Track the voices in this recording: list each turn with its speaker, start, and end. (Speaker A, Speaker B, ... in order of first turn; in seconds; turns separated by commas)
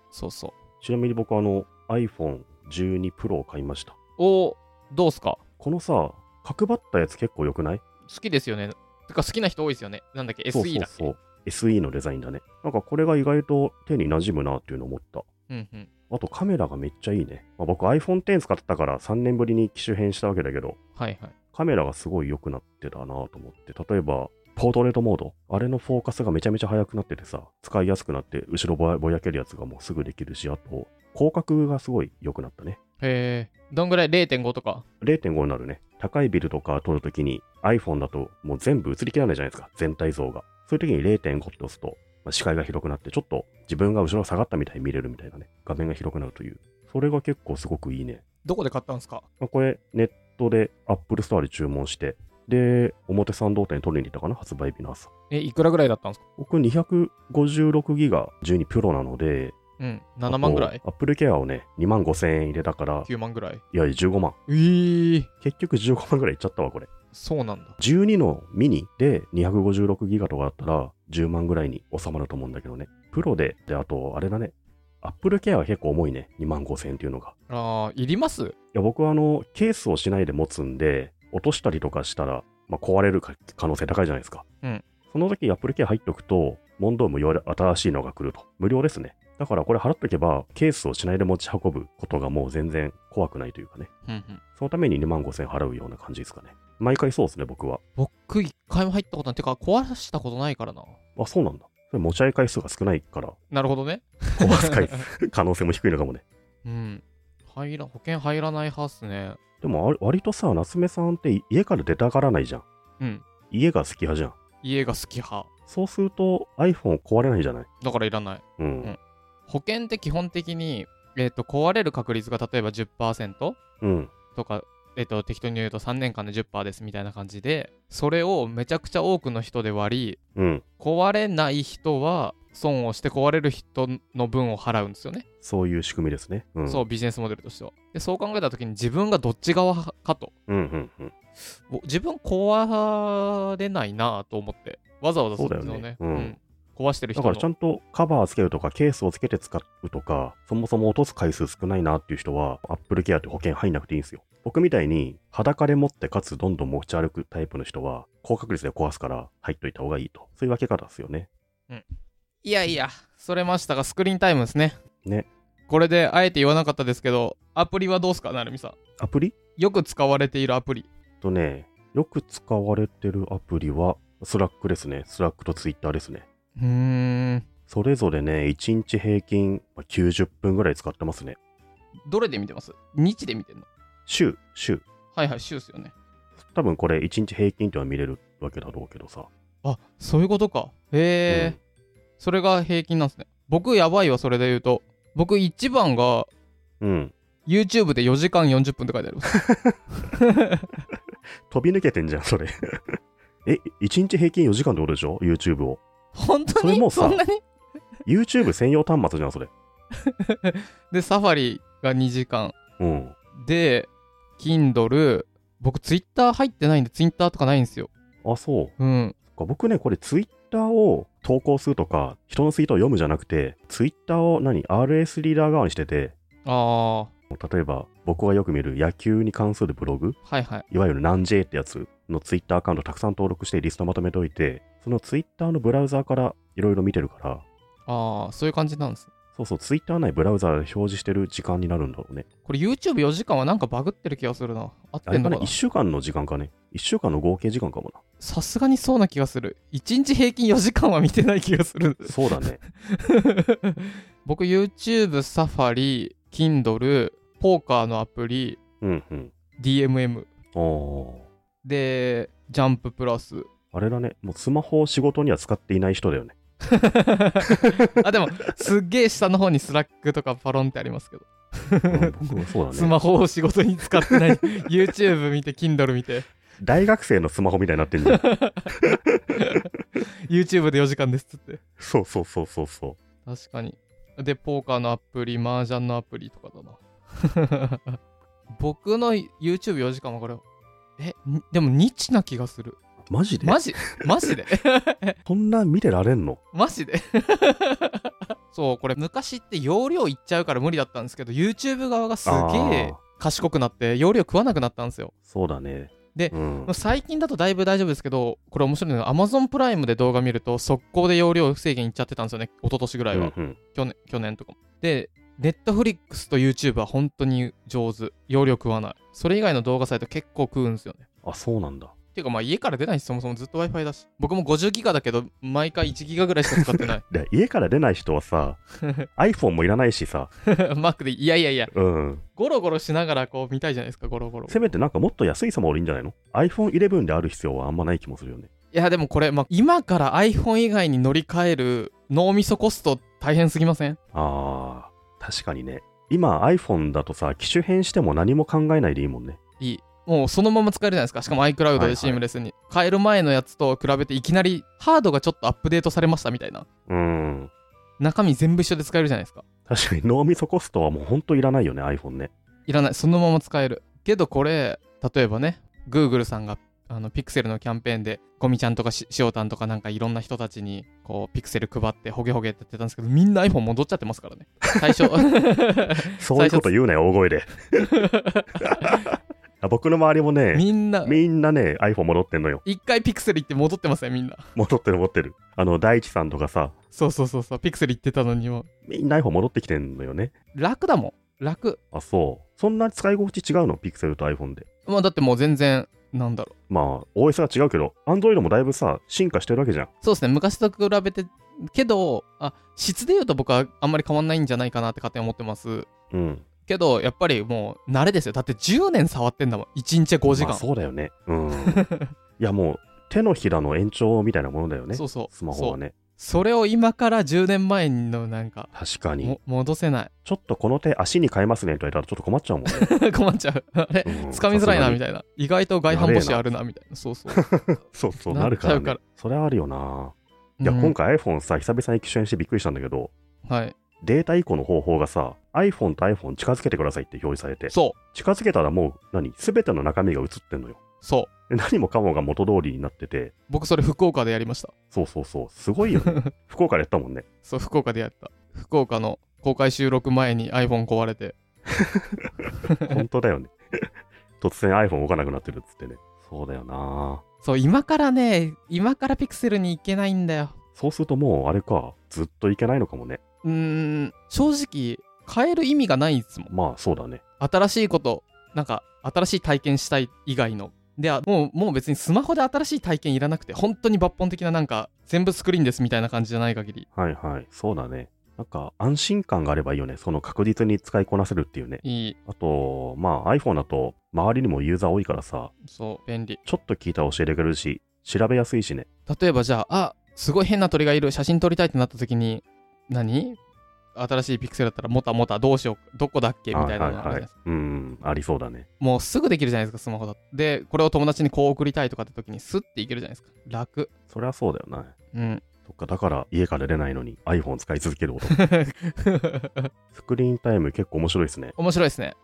Speaker A: 0.1-0.6, Speaker B: 0.8-4.0, Speaker A: 4.2-5.4, Speaker B: 5.6-7.8, Speaker A: 8.1-11.1, Speaker B: 10.5-15.3, Speaker A: 15.5-15.9, Speaker B: 16.1-20.8, Speaker A: 21.0-21.3, Speaker B: 21.5-32.8, Speaker A: 33.0-34.8, Speaker B: 35.0-48.2, Speaker A: 48.4-49.2, Speaker B: 49.4-55.1, Speaker A: 55.3-56.2, Speaker B: 56.4-59.6, Speaker A: 59.8-60.8, Speaker B: 60.3-63.1, Speaker A: 63.0-63.6, Speaker B: 63.7-64.4, Speaker A: 64.5-65.3, Speaker B: 65.4-66.9, Speaker A: 67.1-67.8, Speaker B: 67.8-77.3, Speaker A: 77.5-78.5, Speaker B: 78.7-84.5, Speaker B: 85.1-93.9, Speaker A: 94.1-94.4, Speaker B: 94.6-97.8, Speaker A: 98.0-101.0, Speaker B: 101.2-103.4, Speaker A: 103.5-105.1, Speaker B: 104.4-106.2, Speaker A: 106.7-109.4, Speaker B: 109.6-112.7, Speaker B: 113.5-114.3, Speaker A: 114.6-115.5, Speaker B: 115.7-117.7, Speaker A: 117.8-123.6, Speaker B: 118.6-119.0, Speaker B: 123.8-124.1, Speaker A: 124.3-130.2, Speaker B: 130.4-130.6, Speaker A: 130.8-135.2, Speaker B: 135.4-136.8, Speaker A: 136.7-140.3, Speaker B: 140.5-141.1, Speaker A: 141.7-147.5, Speaker B: 145.4-146.3, Speaker B: 147.2-161.3, Speaker A: 162.4-164.8, Speaker A: 165.7-168.8, Speaker B: 169.0-169.4, Speaker A: 169.6-170.9, Speaker B: 171.2-176.3, Speaker A: 176.6-177.5, Speaker B: 177.7-181.4, Speaker A: 182.1-183.7, Speaker B: 184.1-184.8, Speaker A: 185.1-185.9, Speaker B: 186.4-189.3, Speaker A: 189.6-191.6, Speaker B: 191.3-191.6, Speaker A: 192.2-196.3, Speaker B: 196.8-197.1, Speaker A: 197.5-199.3, Speaker B: 199.3-199.8, Speaker A: 200.1-200.7, Speaker B: 201.5-205.8, Speaker A: 206.1-207.4, Speaker B: 206.6-207.2, Speaker B: 208.1-209.5, Speaker A: 210.0-212.6, Speaker B: 212.8-213.2, Speaker A: 213.4-217.9, Speaker B: 218.2-218.7, Speaker A: 218.8-219.2, Speaker B: 219.3-226.2, Speaker A: 226.4-227.1, Speaker B: 227.3-230.2, Speaker A: 230.3-230.7, Speaker B: 230.7-237.4, Speaker A: 237.9-239.1, Speaker B: 239.3-242.3, Speaker A: 242.4-245.6, Speaker B: 245.1-248.0, Speaker A: 248.2-258.6, Speaker B: 252.0-252.6, Speaker B: 258.8-259.3, Speaker A: 259.6-260.3, Speaker B: 260.5-261.3, Speaker A: 261.6-263.5, Speaker B: 263.7-266.4, Speaker A: 266.7-276.3, Speaker B: 271.9-272.9, Speaker B: 276.6-279.4, Speaker A: 278.1-278.6, Speaker A: 279.4-281.6, Speaker B: 281.8-283.0, Speaker A: 283.3-288.0, Speaker A: 288.6-290.4, Speaker A: 291.0-292.8, Speaker B: 293.1-294.1, Speaker A: 293.4-295.2, Speaker B: 295.3-296.4, Speaker A: 296.5-305.1, Speaker B: 302.2-303.0, Speaker B: 305.3-306.7, Speaker A: 306.1-321.0, Speaker B: 313.1-313.6, Speaker B: 321.2-321.9, Speaker A: 322.1-327.0, Speaker B: 326.6-328.6, Speaker B: 329.2-330.3, Speaker A: 330.5-331.7, Speaker B: 331.7-332.2, Speaker A: 332.4-334.7, Speaker B: 334.5-338.5, Speaker A: 338.7-344.0, Speaker B: 344.1-349.4, Speaker A: 349.6-356.7, Speaker B: 351.8-352.2, Speaker B: 356.9-357.5, Speaker A: 358.0-359.4, Speaker B: 359.7-362.3, Speaker A: 362.7-376.7, Speaker B: 374.6-375.0, Speaker B: 376.1-378.0, Speaker A: 378.0-378.6, Speaker B: 378.6-382.6, Speaker A: 380.5-381.2, Speaker A: 382.6-384.5, Speaker B: 384.6-386.8, Speaker A: 386.9-388.7, Speaker B: 388.9-390.3, Speaker A: 390.6-391.8, Speaker B: 391.9-394.7, Speaker A: 394.9-396.5, Speaker B: 396.7-399.9, Speaker A: 400.0-405.9, Speaker B: 406.1-406.5, Speaker A: 406.7-410.6, Speaker B: 410.3-411.9, Speaker A: 411.7-412.1, Speaker B: 412.4-415.9, Speaker A: 414.9-418.7, Speaker B: 418.7-419.4, Speaker A: 419.2-420.1, Speaker B: 420.2-422.9, Speaker A: 422.7-427.4, Speaker B: 424.0-425.0, Speaker B: 425.9-426.5, Speaker B: 427.3-433.1, Speaker A: 428.3-429.0, Speaker A: 430.6-430.9, Speaker A: 433.4-433.7, Speaker B: 434.0-440.8, Speaker A: 437.7-438.0, Speaker A: 441.0-441.3, Speaker B: 441.5-443.3, Speaker A: 443.5-444.7, Speaker B: 444.9-447.3, Speaker A: 445.9-446.3, Speaker A: 447.4-451.4, Speaker B: 451.7-457.2, Speaker A: 457.4-460.5, Speaker B: 460.8-463.2, Speaker A: 463.4-466.5, Speaker B: 466.5-467.2, Speaker A: 467.4-476.9, Speaker B: 476.9-485.5, Speaker A: 481.8-482.2, Speaker A: 485.6-486.4, Speaker B: 486.4-488.9, Speaker A: 489.1-493.4, Speaker A: 493.9-497.3, Speaker B: 496.5-498.7, Speaker A: 498.8-503.9, Speaker B: 504.1-504.9, Speaker A: 505.1-505.4, Speaker B: 505.6-508.5, Speaker A: 508.3-509.7, Speaker B: 509.9-511.6, Speaker A: 511.6-512.2